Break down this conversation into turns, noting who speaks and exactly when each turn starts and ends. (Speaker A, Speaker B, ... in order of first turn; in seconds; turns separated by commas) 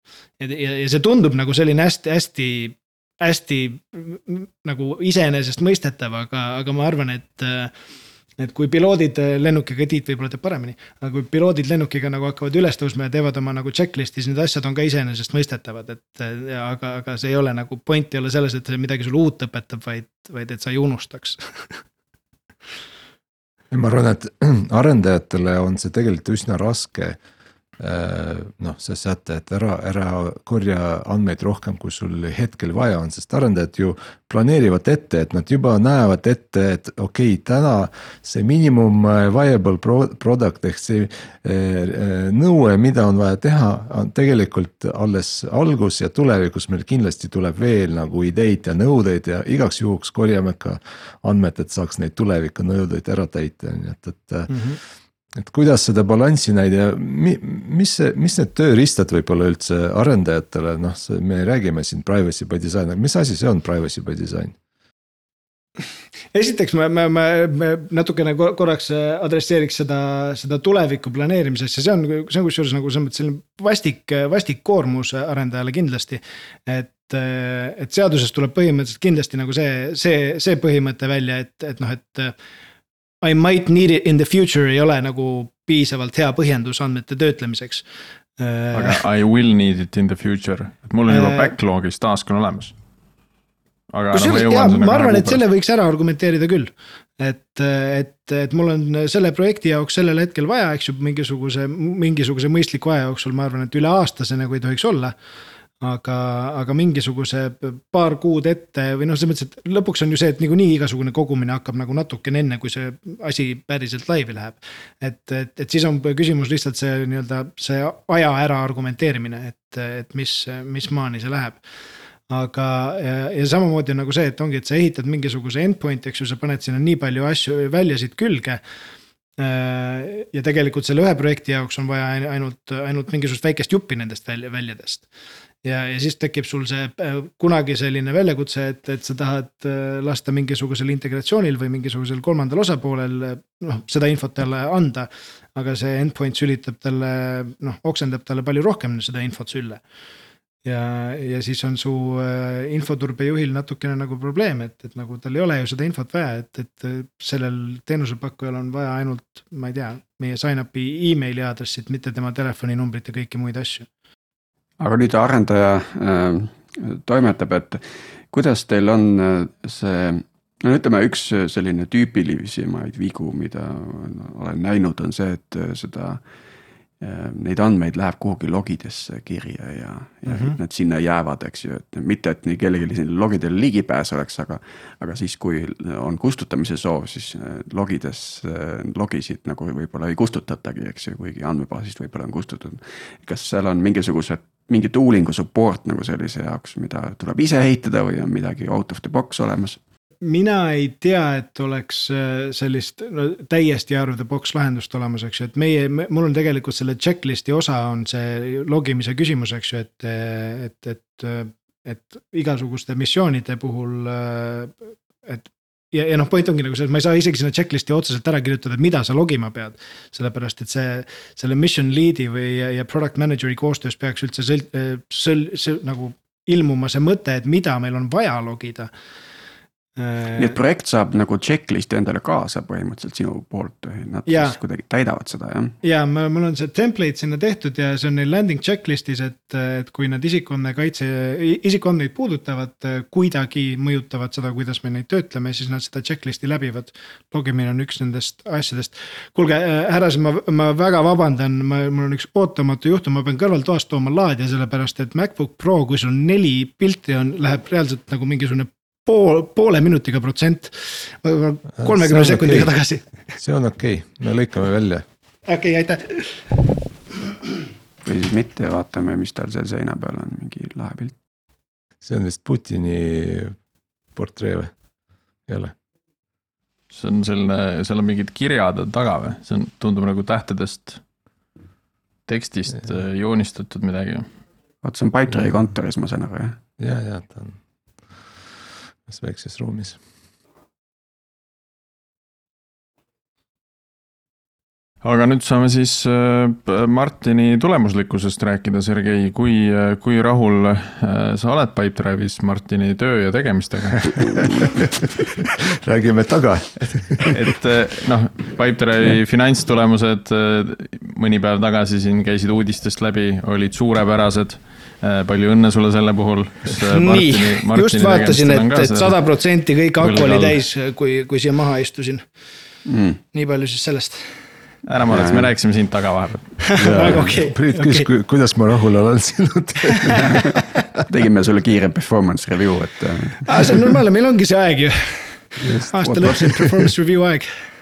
Speaker A: 0.4-7.7, Speaker A: 8.4-21.4, Speaker B: 23.7-27.2, Speaker B: 27.8-54.6, Speaker A: 54.5-54.8, Speaker B: 55.4-64.5, Speaker A: 66.3-82.3, Speaker A: 83.2-87.8, Speaker A: 88.4-89.0, Speaker C: 88.7-92.7, Speaker A: 91.1-91.5, Speaker C: 93.9-95.4, Speaker A: 94.1-105.1, Speaker A: 105.8-121.6, Speaker A: 122.3-128.6, Speaker A: 129.4-135.1, Speaker A: 135.6-149.8, Speaker A: 150.6-163.9, Speaker D: 164.8-176.2, Speaker D: 177.0-199.8, Speaker A: 180.3-180.6, Speaker A: 200.2-228.9, Speaker A: 230.0-230.6, Speaker D: 230.3-235.8, Speaker A: 234.3-234.6, Speaker A: 235.8-263.0, Speaker B: 261.8-262.7, Speaker B: 263.4-265.0, Speaker A: 265.5-266.6, Speaker D: 268.0-271.1, Speaker B: 272.0-273.5, Speaker B: 274.1-274.7, Speaker B: 275.5-275.7, Speaker C: 276.9-281.0, Speaker C: 282.3-284.3, Speaker D: 284.8-286.6, Speaker B: 286.8-287.6, Speaker B: 289.1-290.0, Speaker C: 295.0-304.2, Speaker B: 305.6-307.3, Speaker C: 307.2-319.2, Speaker A: 316.9-322.2, Speaker C: 320.0-320.6, Speaker D: 322.9-323.2, Speaker A: 323.3-324.3, Speaker C: 324.9-326.8, Speaker D: 325.1-325.5, Speaker A: 326.7-328.1, Speaker B: 326.8-330.4, Speaker D: 330.2-330.5, Speaker D: 331.1-333.9, Speaker A: 333.5-337.6, Speaker D: 335.6-336.9